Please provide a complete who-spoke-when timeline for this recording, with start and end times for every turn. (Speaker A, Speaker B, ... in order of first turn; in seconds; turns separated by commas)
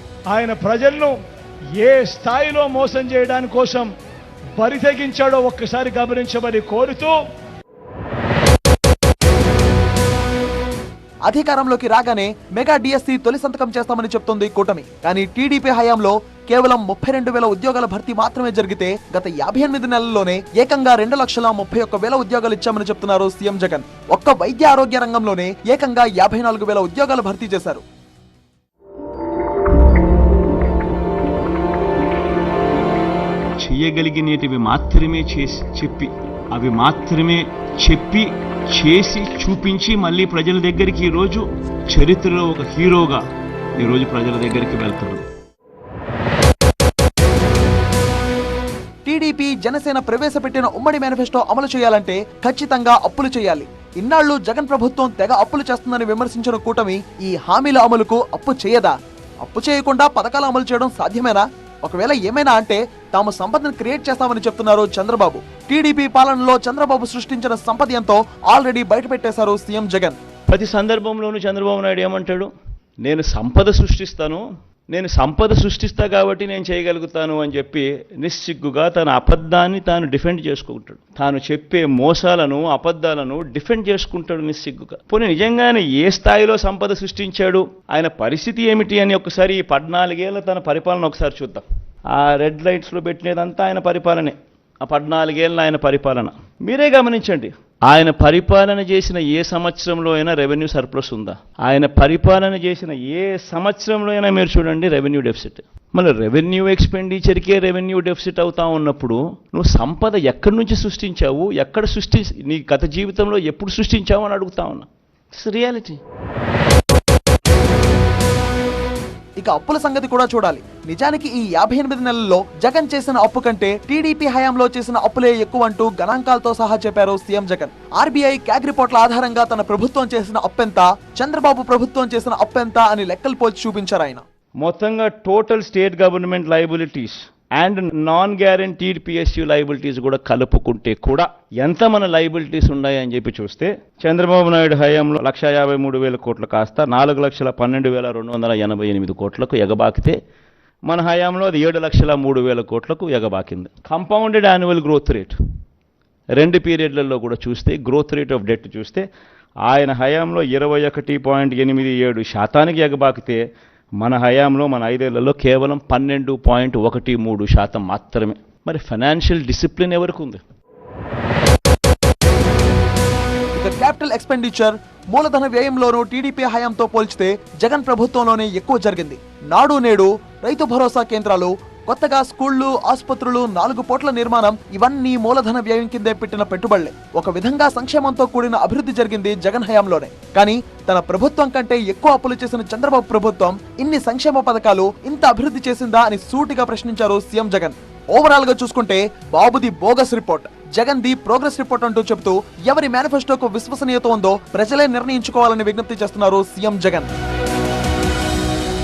Speaker A: 0.3-1.2, Speaker A: 1.8-3.9, Speaker A: 4.6-7.2, Speaker B: 11.2-27.8, Speaker C: 33.6-43.2, Speaker C: 43.8-45.2, Speaker B: 49.0-70.2, Speaker C: 70.5-72.5, Speaker C: 73.0-116.0, Speaker B: 119.4-134.2, Speaker C: 134.6-150.2, Speaker C: 150.9-155.3, Speaker C: 156.4-159.0, Speaker C: 159.6-163.4, Speaker C: 164.0-170.4, Speaker B: 173.5-207.1